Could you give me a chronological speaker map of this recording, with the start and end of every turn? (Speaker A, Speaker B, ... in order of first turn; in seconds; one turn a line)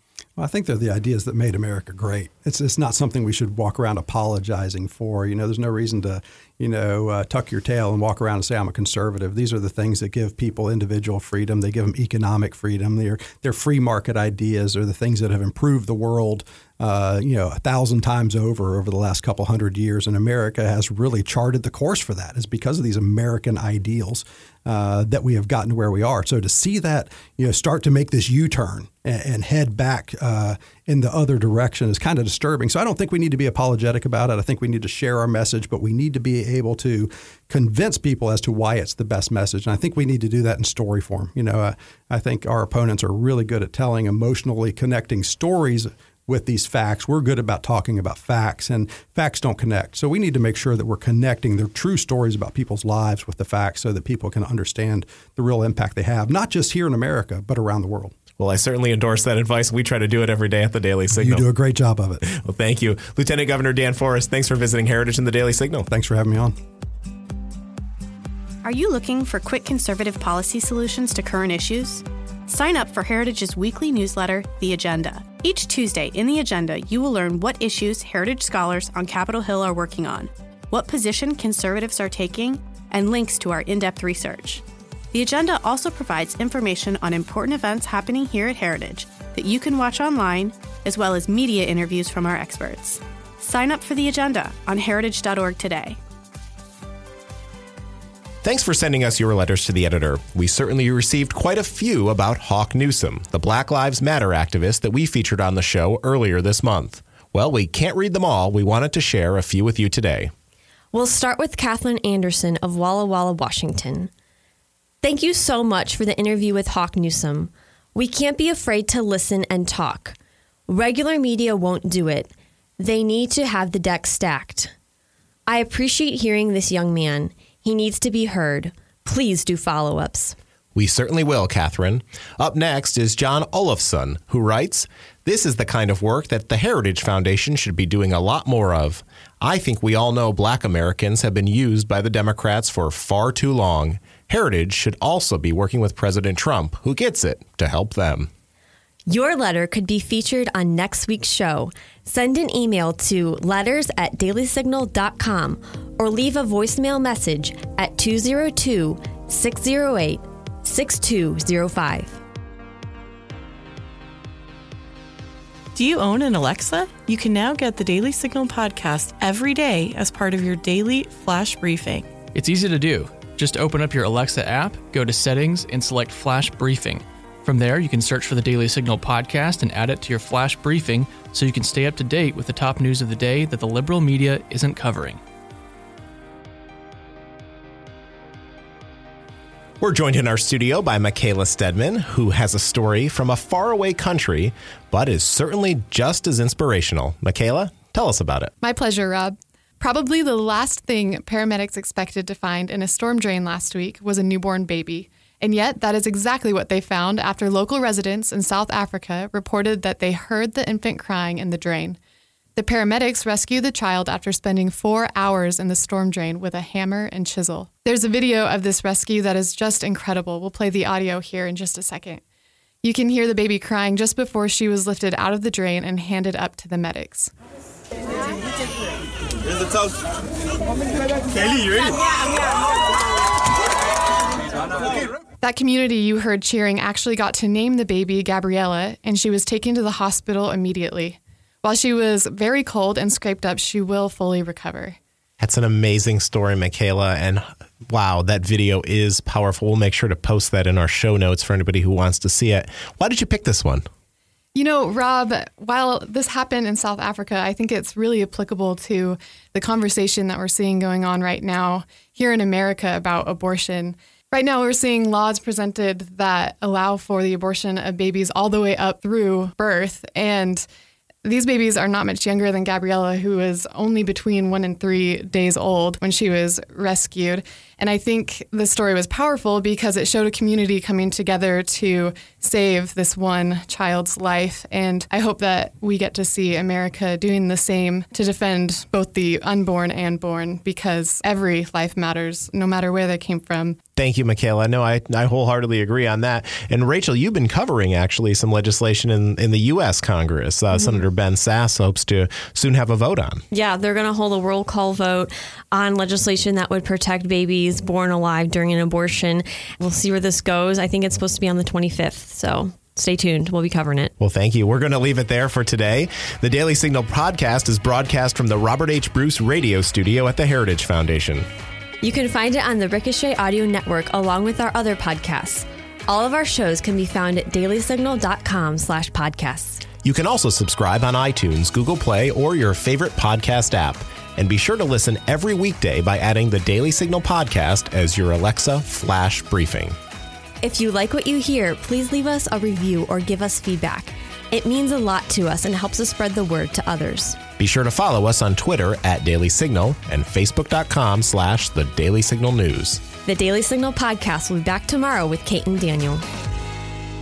Speaker A: 0.4-58.1
Speaker B: 58.4-61.5
Speaker A: 61.1-62.2
Speaker B: 62.2-65.9
Speaker A: 65.9-66.5
Speaker C: 68.7-84.6
Speaker C: 85.2-95.9
Speaker B: 98.4-110.3
Speaker D: 110.9-114.1
Speaker D: 115.0-120.2
Speaker D: 120.7-124.7
Speaker D: 125.5-130.4
Speaker B: 130.8-148.3
Speaker D: 149.1-162.2
Speaker E: 165.8-172.2
Speaker F: 172.3-185.2
Speaker B: 189.8-198.5
Speaker G: 198.6-212.0
Speaker G: 212.6-222.2
Speaker G: 222.8-227.3
Speaker G: 235.4-245.0
Speaker B: 245.4-253.9
Speaker G: 254.5-270.7
Speaker G: 271.2-293.8
Speaker B: 294.0-303.4
Speaker D: 303.5-314.1
Speaker B: 314.2-321.5
Speaker D: 322.0-329.8
Speaker B: 330.0-340.0
Speaker D: 340.6-347.4
Speaker B: 347.6-353.0
Speaker D: 353.2-356.2